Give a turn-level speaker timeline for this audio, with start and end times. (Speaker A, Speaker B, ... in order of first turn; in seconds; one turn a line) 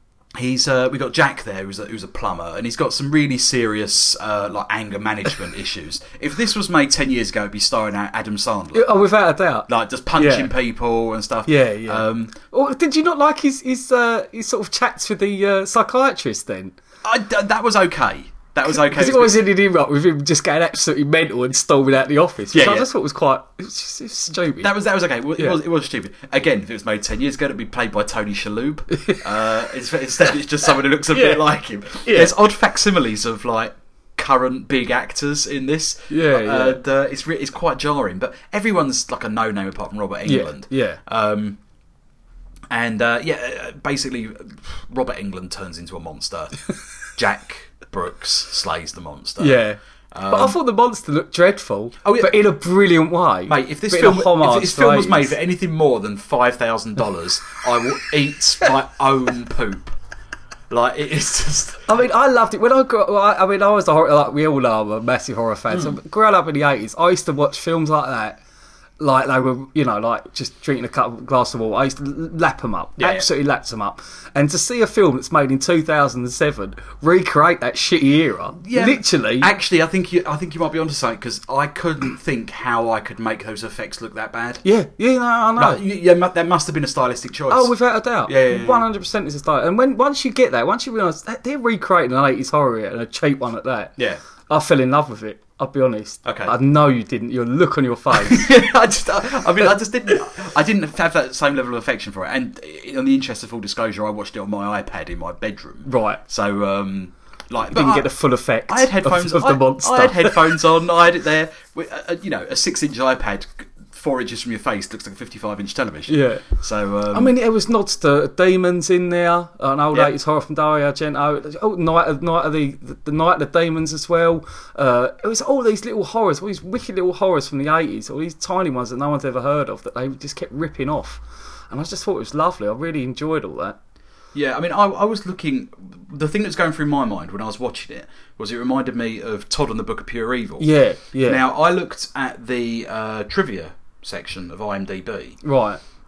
Speaker A: 0.3-8.9
Speaker B: 8.7-10.5
Speaker A: 9.7-12.3
Speaker B: 11.4-16.8
Speaker A: 17.0-19.4
Speaker B: 18.6-24.7
Speaker A: 22.5-22.9
Speaker A: 24.6-41.6
Speaker B: 28.9-29.2
Speaker B: 31.1-31.4
Speaker B: 32.0-32.3
Speaker B: 36.1-36.8
Speaker B: 40.2-41.0
Speaker A: 42.7-46.6
Speaker A: 47.1-50.6
Speaker B: 49.4-55.4
Speaker A: 52.0-52.4
Speaker A: 53.5-59.9
Speaker A: 60.7-61.8
Speaker B: 61.9-68.4
Speaker B: 69.0-79.5
Speaker A: 73.0-73.3
Speaker A: 78.6-84.6
Speaker B: 84.6-85.8
Speaker A: 85.5-87.7
Speaker B: 87.5-94.0
Speaker A: 88.2-88.8
Speaker B: 94.5-98.5
Speaker A: 96.2-96.5
Speaker A: 98.1-108.1
Speaker B: 105.8-106.2
Speaker B: 107.7-110.6
Speaker A: 108.7-117.3
Speaker B: 116.1-116.5
Speaker B: 117.1-133.8
Speaker A: 134.3-140.7
Speaker B: 140.6-141.4
Speaker A: 141.2-145.4
Speaker B: 145.4-145.8